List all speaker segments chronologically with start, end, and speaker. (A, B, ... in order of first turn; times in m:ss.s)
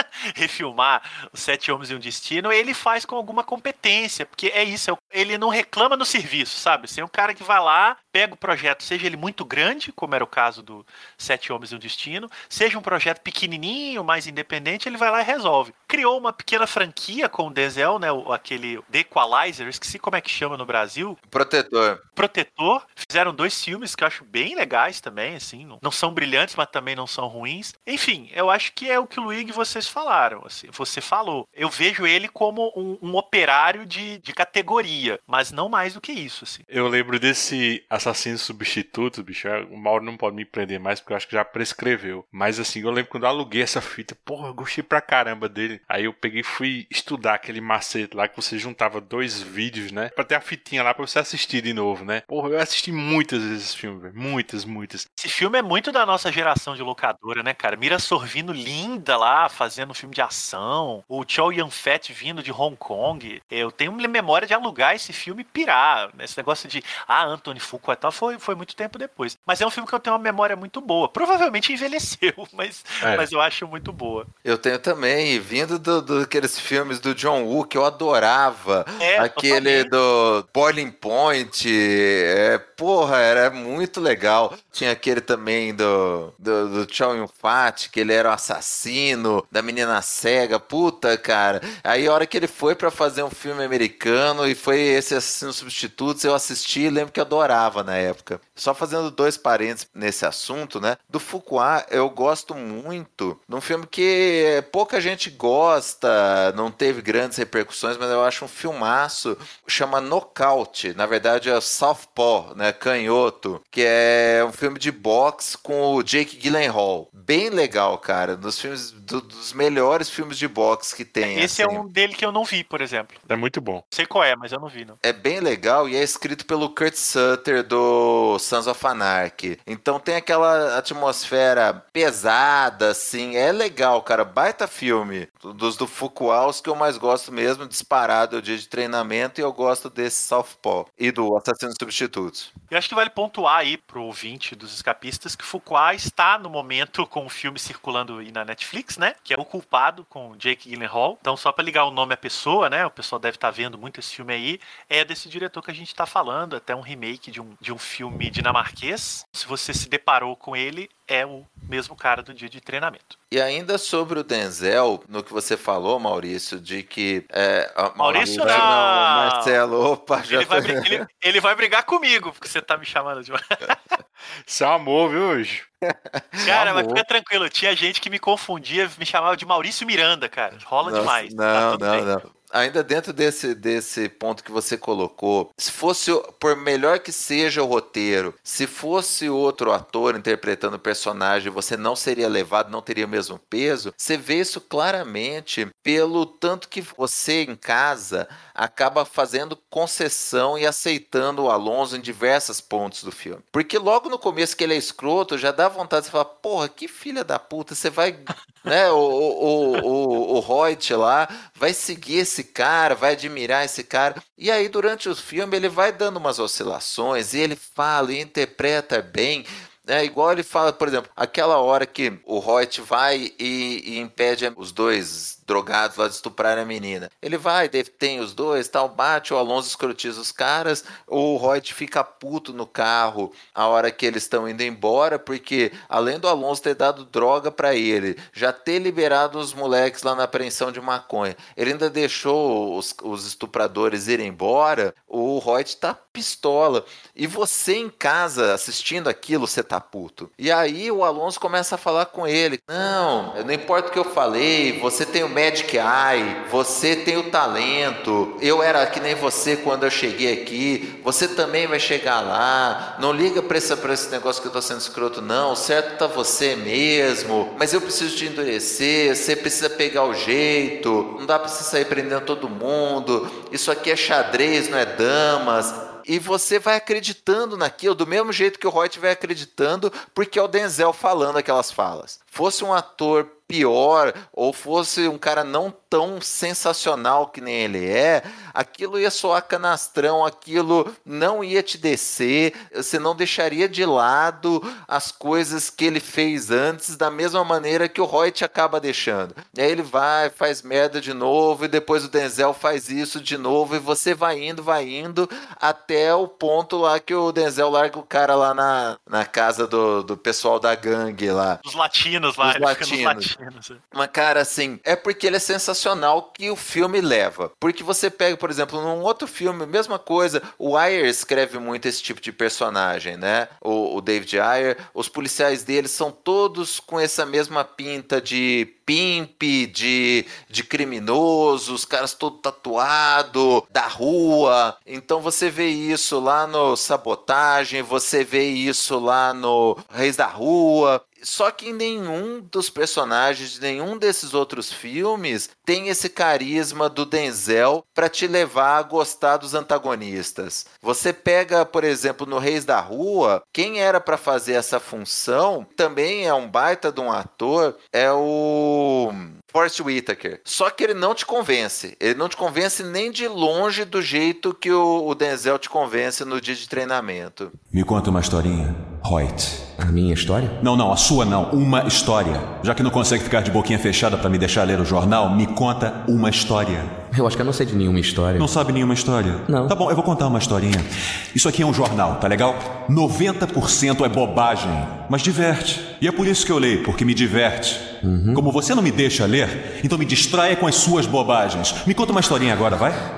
0:00.3-0:21.2 A
0:21.3-0:22.0 B
0:22.2-0:36.6 A
0:36.7-0:55.1 C
0:55.2-1:14.3 A
1:13.0-1:13.3 C
1:14.4-2:01.8 B
1:19.0-1:19.9 A
2:01.2-2:03.2 A
2:03.3-2:03.8 C
2:03.9-2:05.0 A
2:05.0-2:22.5 B
2:22.7-2:43.2 A
2:43.3-2:51.0 B
2:48.0-2:49.6 A
2:48.4-2:48.7 C
2:50.2-2:53.8 A
2:54.5-2:55.7 C
2:56.1-2:57.0 B
2:56.4-3:02.1 A
3:00.8-5:11.6 B
5:11.6-5:13.8 A
5:12.4-5:13.3 B
5:13.9-6:07.5 B
6:07.7-6:09.6 D
6:09.8-6:10.6 E
6:10.6-6:17.0 D
6:17.1-6:18.5 E
6:18.4-6:33.0 D
6:19.5-6:19.8 E
6:28.0-6:28.4 E